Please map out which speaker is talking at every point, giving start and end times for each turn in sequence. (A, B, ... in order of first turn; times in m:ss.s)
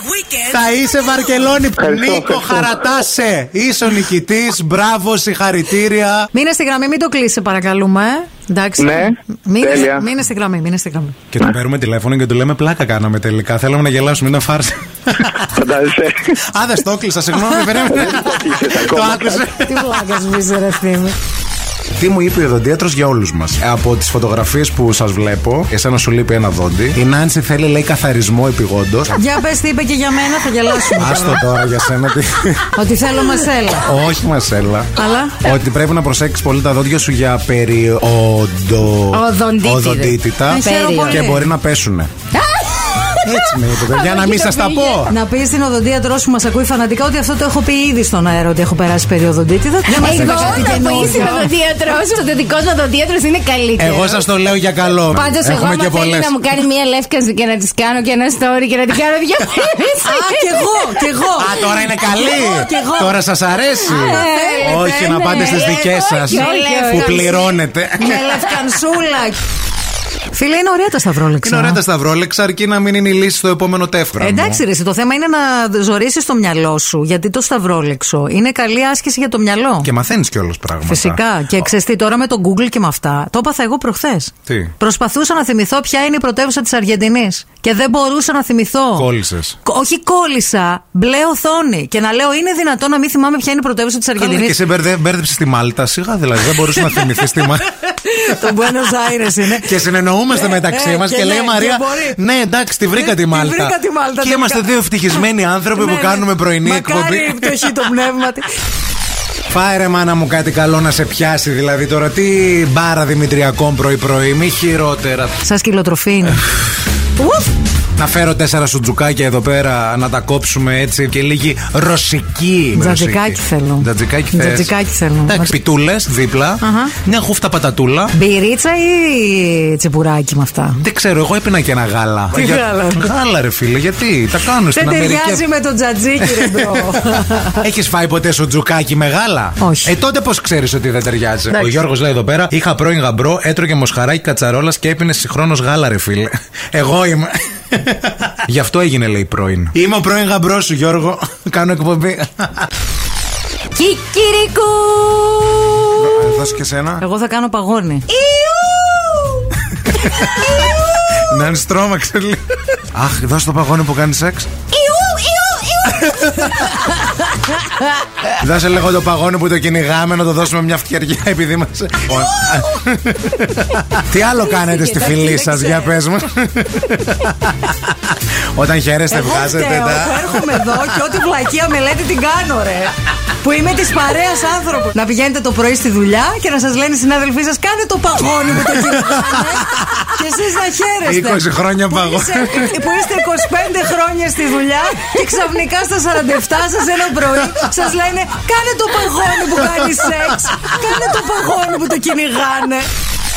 0:00.5-0:06.3 A
0:01.8-0:02.8 B
0:06.3-0:11.2 C
0:08.8-0:10.1 B
0:11.3-0:15.5 A
0:15.4-0:16.4 B
0:16.4-0:20.0 A
0:18.0-0:19.5 B
0:19.6-0:21.2 C
0:21.9-0:29.2 A
0:29.1-0:31.4 C
0:30.9-0:32.8 A
0:32.7-0:33.9 C
0:33.8-0:42.1 A
0:35.0-0:35.5 C
0:39.1-0:41.2 D
0:40.5-0:41.4 C
0:42.4-0:45.1 D
0:43.2-0:45.1 A
0:45.1-0:51.5 C
0:49.9-0:54.2 D
0:50.0-0:51.0 A
0:53.8-0:56.4 A
0:55.1-1:00.9 D
1:00.0-1:01.6 C
1:01.4-1:08.4 A
1:02.1-1:03.1 C
1:03.8-1:05.6 C
1:04.0-1:07.5 D
1:06.3-1:07.3 C
1:08.0-1:09.4 C
1:10.3-1:11.8 C
1:11.4-1:14.6 A
1:14.2-1:19.9 C
1:19.8-1:21.2 A
1:20.8-1:29.1 C
1:24.5-1:24.7 A
1:29.0-1:29.6 A
1:29.6-1:34.6 C
1:34.2-1:37.7 A
1:38.0-1:42.2 C
1:39.6-1:47.8 A
1:42.9-1:44.7 C
1:45.8-1:48.5 C
1:49.5-1:55.4 A
1:55.4-1:56.4 C
1:56.3-1:56.7 A
1:57.2-1:57.5 C
1:58.0-2:04.7 A
2:02.7-2:05.5 C
2:05.3-2:08.1 A
2:06.6-2:06.9 C
2:08.1-2:10.8 C
2:10.8-2:15.5 A
2:12.3-2:13.1 C
2:14.7-2:17.6 C
2:16.2-2:32.7 A
2:19.6-2:19.9 C
2:33.8-2:36.1 D
2:36.0-2:37.0 A
2:37.0-2:38.1 C
2:38.1-2:39.5 D
2:39.9-2:40.5 A
2:40.1-2:40.9 D
2:41.2-2:44.6 A
2:44.7-2:46.7 D
2:48.4-3:00.9 A
2:54.9-2:55.9 C
2:59.1-3:22.9 C
3:08.6-3:09.9 A
3:11.0-3:12.8 A
3:19.6-3:20.0 A